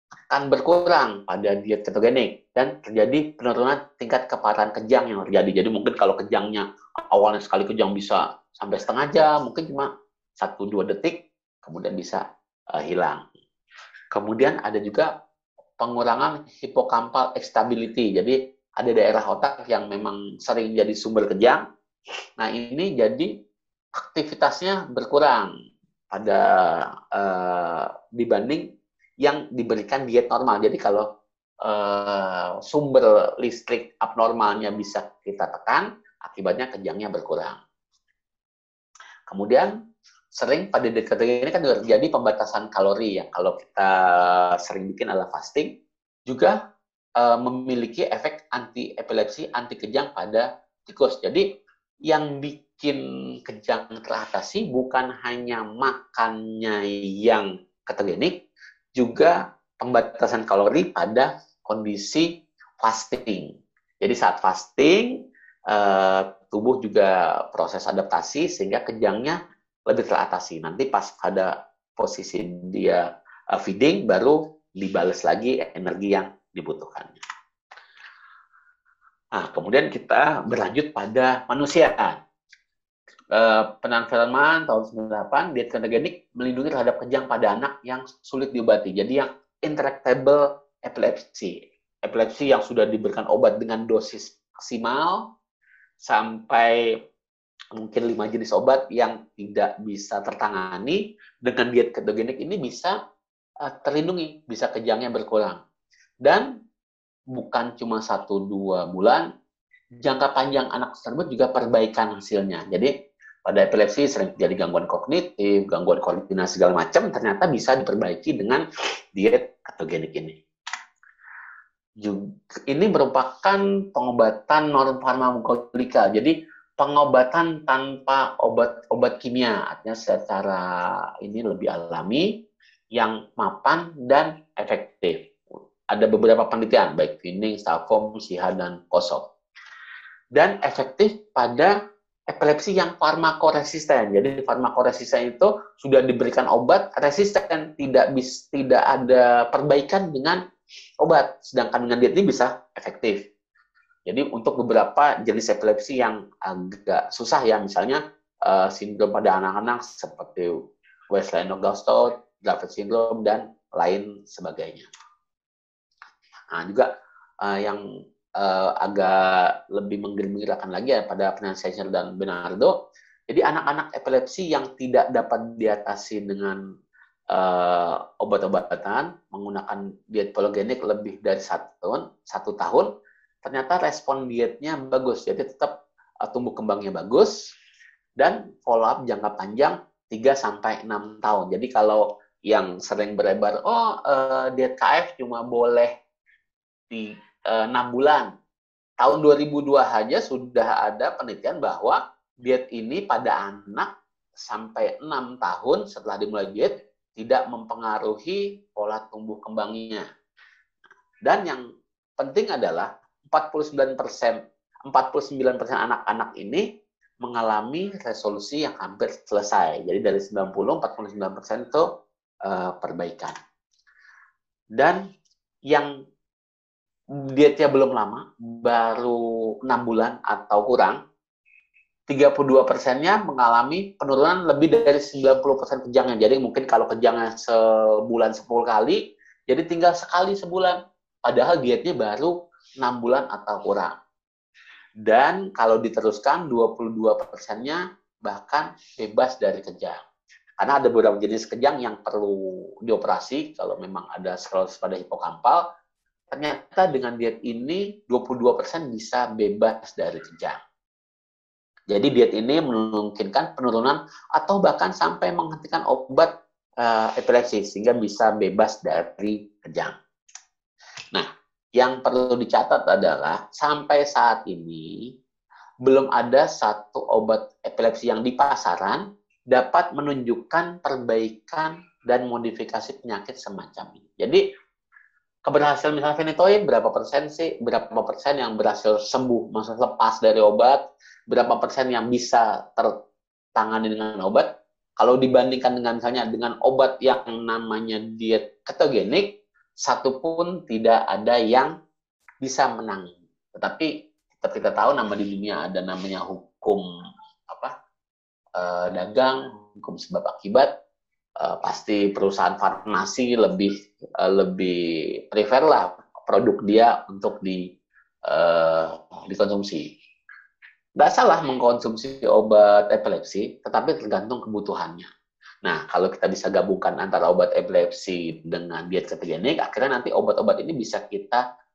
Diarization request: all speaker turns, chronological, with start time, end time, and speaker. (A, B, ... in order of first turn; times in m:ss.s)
0:00.3-0:12.2 A
0:12.7-0:13.2 A
0:14.1-0:15.1 A
0:15.8-0:21.6 A
0:22.4-0:23.3 A
0:24.0-0:25.5 A
0:26.1-0:28.6 A
0:29.2-0:31.0 A
0:31.6-0:37.6 A
0:39.3-0:39.7 A
0:40.3-0:45.7 A
0:46.3-0:46.6 A
0:47.2-0:51.4 A
0:52.1-0:58.3 A
0:59.0-1:02.3 A
1:02.8-1:03.5 A
1:04.0-1:05.1 A
1:05.7-1:17.2 A
1:19.3-1:22.2 A
1:23.3-1:35.2 A
1:36.0-1:36.9 A
1:37.7-1:43.0 A
1:43.6-1:45.6 A
1:47.3-1:49.2 A
1:50.0-1:52.9 A
1:53.4-1:58.6 A
1:59.1-2:00.4 A
2:02.0-2:12.3 A
2:12.9-2:15.2 A
2:15.9-2:19.2 A
2:20.3-2:21.8 A
2:22.3-2:30.4 A
2:31.0-2:33.2 A
2:34.1-2:40.5 A
2:41.1-2:44.9 A
2:46.5-2:46.9 A
2:47.4-2:47.8 A
2:48.4-2:52.7 A
2:53.3-2:56.6 A
2:57.3-3:02.9 A
3:03.4-3:05.7 A
3:06.2-3:07.3 A
3:08.2-3:15.9 A
3:16.9-3:18.3 A
3:19.0-3:30.0 A
3:31.2-3:31.6 A
3:32.2-3:36.6 A
3:37.2-3:41.8 A
3:42.4-3:43.4 A
3:44.8-3:45.0 A
3:47.2-3:51.0 A
3:52.1-4:03.9 A
4:05.0-4:10.0 A
4:10.6-4:15.6 A
4:16.3-4:20.6 A
4:21.9-4:29.9 A
4:31.1-4:35.1 A
4:35.8-4:44.4 A
4:45.4-4:52.9 A
4:53.6-4:54.5 A
4:55.0-4:59.3 A
4:59.8-5:01.7 A
5:02.4-5:06.8 A
5:07.5-5:07.7 A
5:08.6-5:10.7 A
5:11.4-5:17.7 A
5:18.3-5:19.9 A
5:21.0-5:25.1 A
5:25.6-5:31.4 A